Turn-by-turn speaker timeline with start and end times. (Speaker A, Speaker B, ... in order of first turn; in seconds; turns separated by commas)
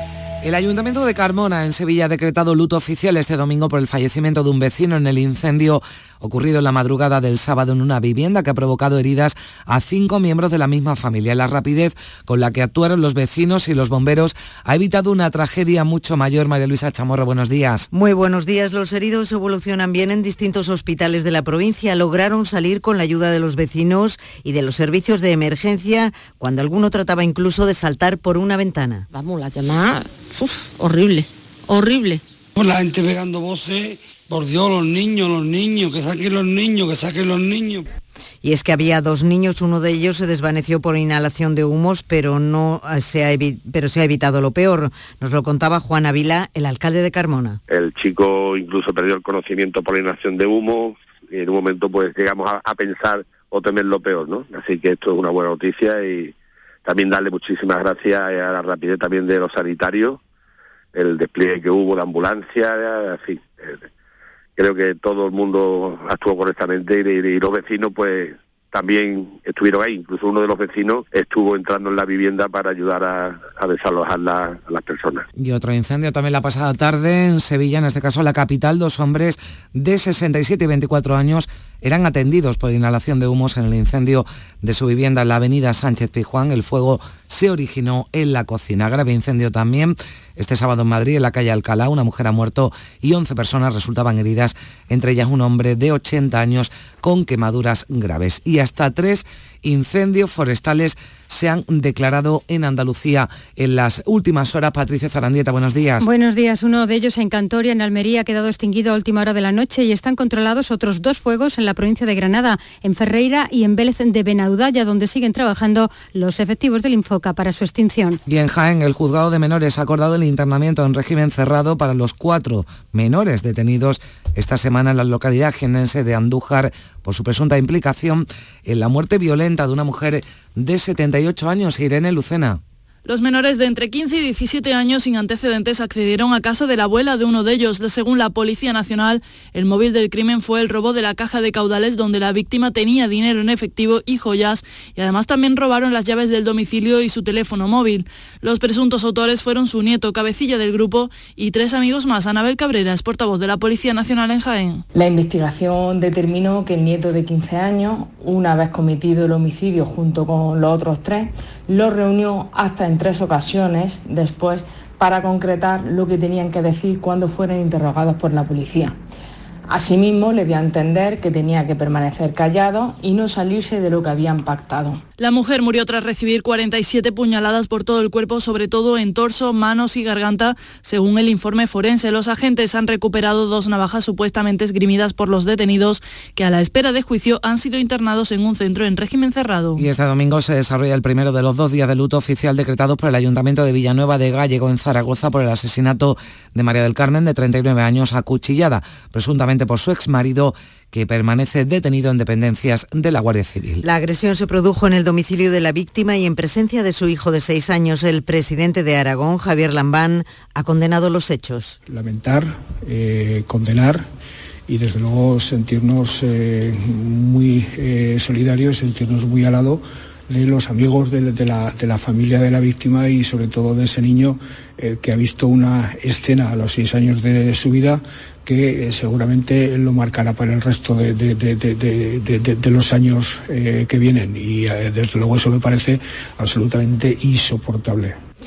Speaker A: 0.4-17.9, Speaker B: 17.9-29.1, Speaker C: 29.1-32.2, Speaker D: 32.6-37.9, Speaker B: 38.4-47.6, Speaker E: 47.7-56.3, Speaker E: 56.9-60.2, Speaker E: 61.0-63.9, Speaker E: 64.6-75.3, Speaker A: 75.4-106.1, Speaker F: 106.0-118.2, Speaker A: 118.3-132.6, Speaker G: 133.1-154.8, Speaker H: 154.9-169.0, Speaker H: 169.7-175.0, Speaker G: 175.2-189.8, Speaker A: 189.8-203.8, Speaker B: 203.8-211.8, Speaker I: 211.9-214.1, Speaker I: 214.7-238.2